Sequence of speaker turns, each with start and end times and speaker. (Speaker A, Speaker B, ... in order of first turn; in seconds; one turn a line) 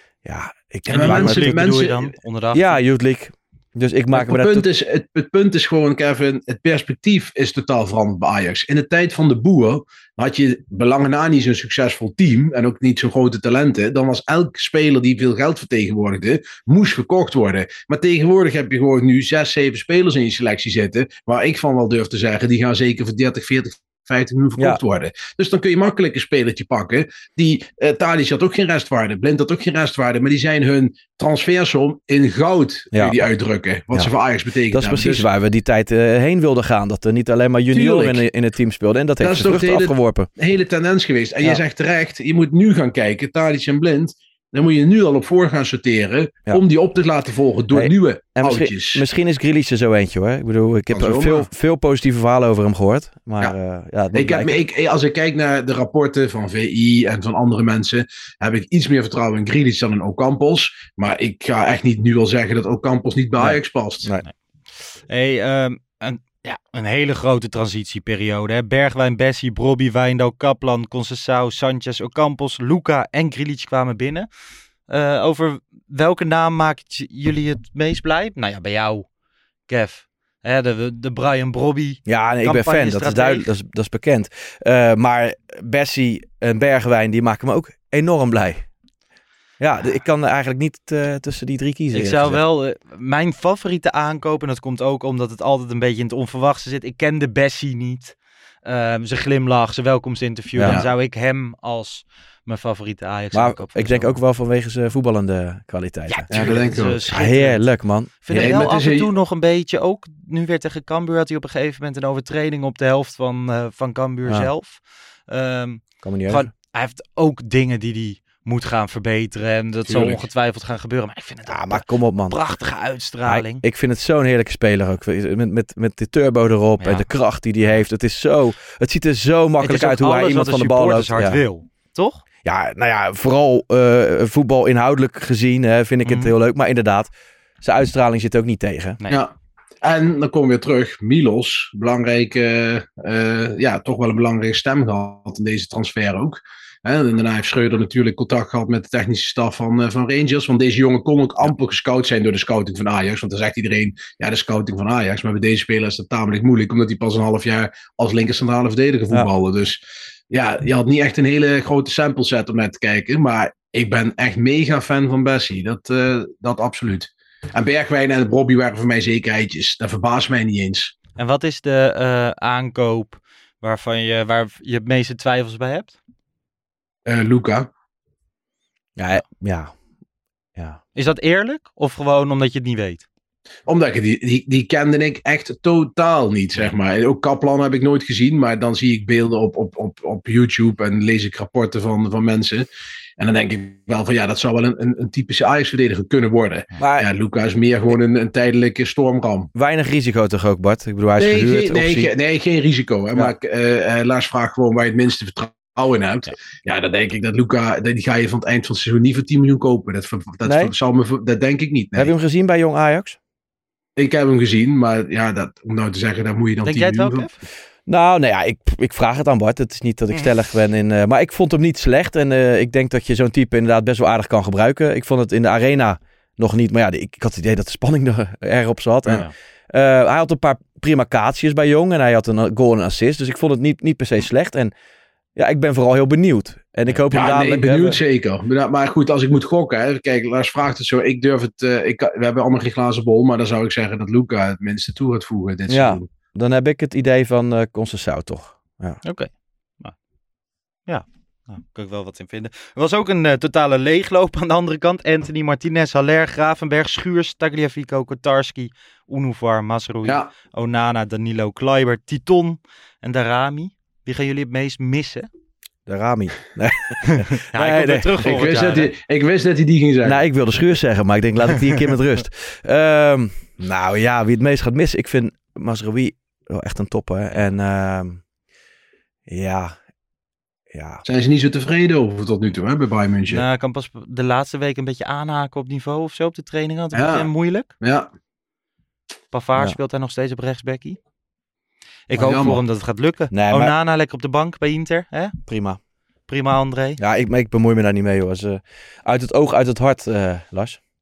Speaker A: 0.2-1.6
Speaker B: 0.9-2.8
Speaker C: 0.9-2.1
Speaker A: 2.5-4.7
Speaker C: 4.1-35.3
Speaker A: 34.7-40.3
Speaker C: 37.7-38.2
Speaker C: 39.2-49.0
Speaker A: 47.7-54.6
Speaker C: 50.9-51.5
Speaker C: 54.1-64.1
Speaker A: 63.4-64.2
Speaker B: 65.1-74.3
Speaker B: 74.9-79.1
Speaker B: 79.7-83.5
Speaker A: 82.1-88.7
Speaker A: 89.6-92.4
Speaker B: 91.9-104.2
Speaker A: 100.5-100.8
Speaker A: 103.3-106.3
Speaker B: 106.1-107.7
Speaker C: 106.3-107.0
Speaker A: 107.1-108.5
Speaker B: 108.2-123.6
Speaker C: 108.3-109.1
Speaker A: 116.0-116.5
Speaker C: 119.9-120.3
Speaker A: 121.5-122.4
Speaker A: 123.2-131.4
Speaker B: 126.8-127.1
Speaker B: 129.6-132.2
Speaker A: 132.4-137.1
Speaker B: 136.1-136.3
Speaker A: 137.6-139.0
Speaker C: 139.8-159.8
Speaker C: 160.3-170.9
Speaker B: 171.2-176.0
Speaker C: 177.1-177.7
Speaker A: 179.0-179.7
Speaker A: 180.6-180.8
Speaker B: 180.9-183.1
Speaker C: 183.7-192.7
Speaker C: 193.2-199.5
Speaker A: 196.8-197.1
Speaker A: 199.6-202.1
Speaker C: 201.2-212.1
Speaker A: 210.4-210.7
Speaker A: 211.9-213.2
Speaker C: 214.0-217.3
Speaker B: 216.7-217.4
Speaker A: 217.9-234.7
Speaker A: 235.3-238.0
Speaker C: 237.1-246.1
Speaker A: 245.7-249.0
Speaker B: 249.0-249.9
Speaker B: 250.9-265.3
Speaker C: 260.1-260.3
Speaker A: 265.9-268.1
Speaker B: 267.3-268.9
Speaker C: 268.2-270.2
Speaker A: 270.0-278.2
Speaker A: 279.3-279.8
Speaker A: 280.7-281.0
Speaker C: 281.1-283.4
Speaker B: 283.3-287.7
Speaker C: 286.9-287.3
Speaker C: 287.8-288.1
Speaker B: 289.3-291.0
Speaker B: 292.1-295.4
Speaker C: 292.2-292.6
Speaker A: 293.3-293.7
Speaker A: 295.5-295.8
Speaker B: 296.3-297.0
Speaker A: 297.0-300.8